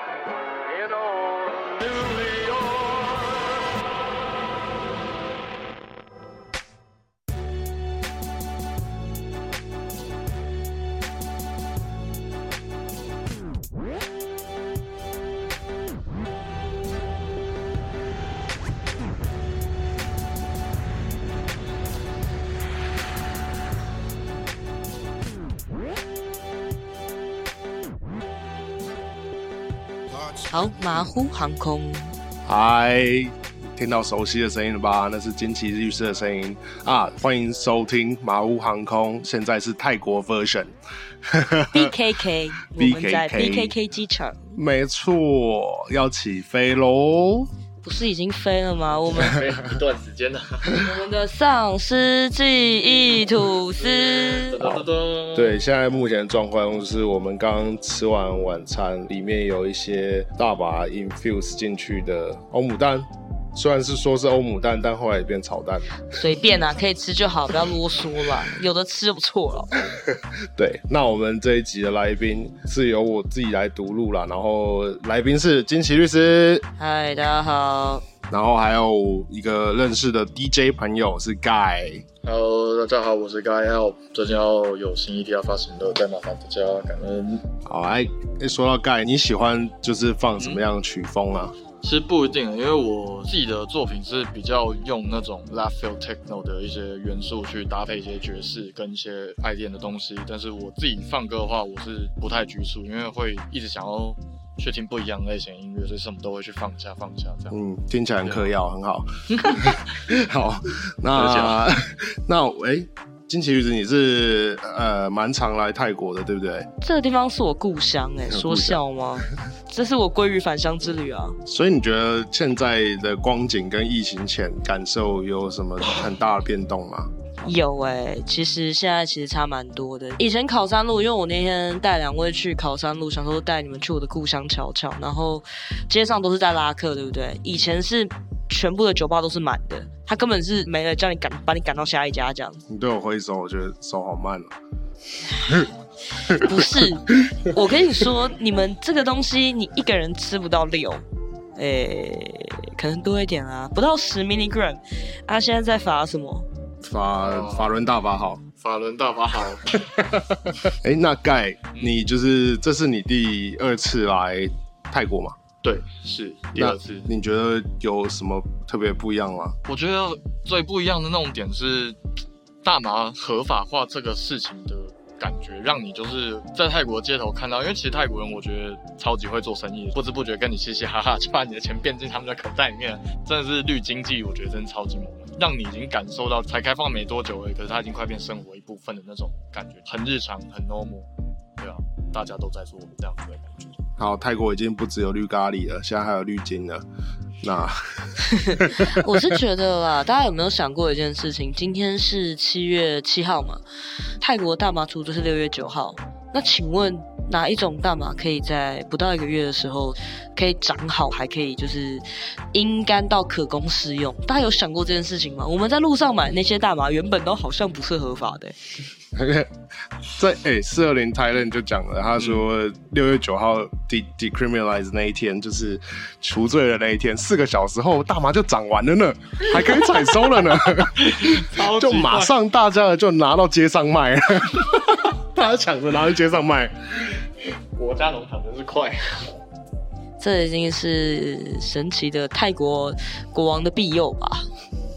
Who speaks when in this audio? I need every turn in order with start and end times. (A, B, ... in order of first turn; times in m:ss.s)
0:00.5-0:03.1 A
0:30.5-0:32.1 B
0:32.4-0:40.7 A
0:41.2-0:42.0 A
0:41.7-0:44.6 B
0:42.7-0:43.7 A
0:44.6-0:47.5 A
0:47.8-0:49.4 B
0:49.1-0:50.8 C
0:50.8-0:54.6 B
0:53.8-0:55.6 C
0:54.6-1:05.9 A
1:06.1-1:09.7 B
1:09.9-1:16.7 A
1:16.8-1:18.0 B
1:18.3-1:22.0 A
1:22.2-1:27.4 C
1:27.7-1:31.6 A
1:31.8-1:47.6 C
1:47.5-1:56.7 A
1:48.2-1:48.5 C
1:49.3-1:49.8 C
1:51.1-1:51.6 C
1:56.8-2:01.4 B
1:58.3-1:58.8 A
2:01.4-2:07.1 A
2:07.4-2:22.6 B
2:22.7-2:24.5 A
2:26.3-2:31.0 B
2:26.3-2:27.4 A
2:31.6-2:36.4 B
2:36.8-2:38.4 A
2:37.2-2:37.7 C
2:38.6-2:39.7 C
2:39.7-2:45.4 A
2:45.6-2:47.1 C
2:46.5-2:49.6 A
2:49.7-2:52.0 C
2:52.6-3:13.8 C
3:14.0-3:16.8 A
3:17.4-3:19.1 A
3:18.3-3:23.6 B
3:24.2-3:38.6 B
3:39.2-3:39.5 A
3:40.0-3:56.7 A
3:42.2-3:42.4 C
3:51.0-3:52.3 C
3:57.8-3:59.4 C
4:00.2-4:04.5 B